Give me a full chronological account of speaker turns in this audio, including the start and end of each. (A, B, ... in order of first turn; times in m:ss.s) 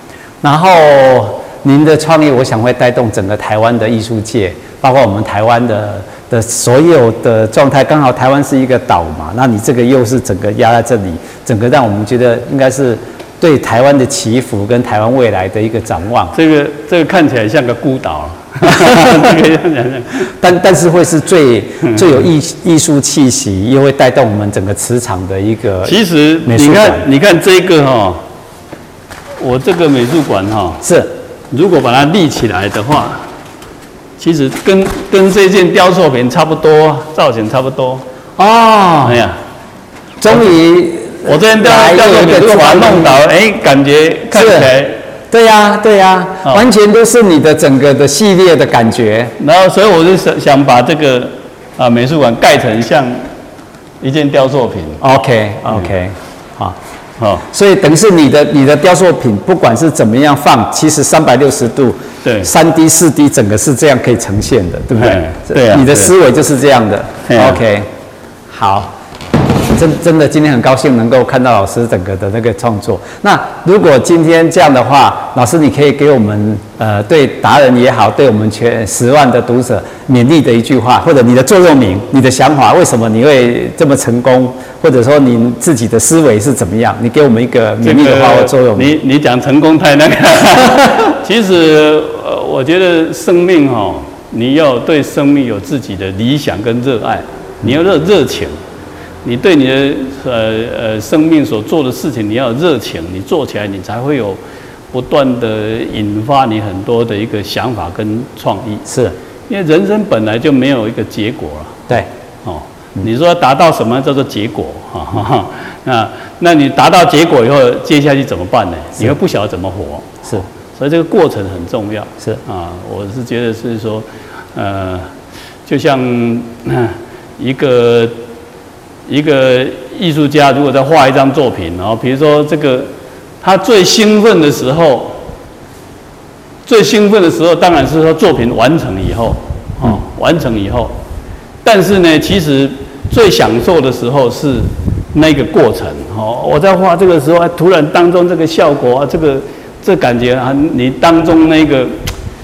0:00.4-0:16.3 A
0:16.3-0:20.3 B
0:18.6-0:19.4 A
0:20.4-0:27.1 A
0:25.8-0:28.2 B
0:29.4-0:30.8 B
0:30.8-0:31.1 A
0:31.5-0:33.2 B
0:34.2-0:38.0 B
0:38.4-0:39.2 A
0:39.0-0:39.4 B
0:40.2-0:43.2 A
0:41.2-0:45.0 B
0:44.3-0:44.8 A
0:45.3-0:49.3 A
0:46.4-0:46.7 B
0:49.4-0:53.3 B
0:54.0-0:55.0 B
0:55.0-0:56.8 A
0:55.6-0:55.9 B
0:57.2-0:57.5 B
0:57.5-1:07.9 A
1:02.2-1:02.5 B
1:04.9-1:06.1 B
1:07.2-1:07.6 B
1:08.5-1:08.9 A
1:09.7-1:29.0 A
1:27.8-1:38.5 B
1:39.2-1:44.4 B
1:44.9-1:48.9 B
1:48.9-1:49.2 A
1:49.5-1:51.9 B
1:52.4-2:00.2 B
2:00.7-2:05.1 B
2:05.6-2:08.2 B
2:09.1-2:15.2 B
2:16.6-2:20.9 B
2:21.6-2:32.0 B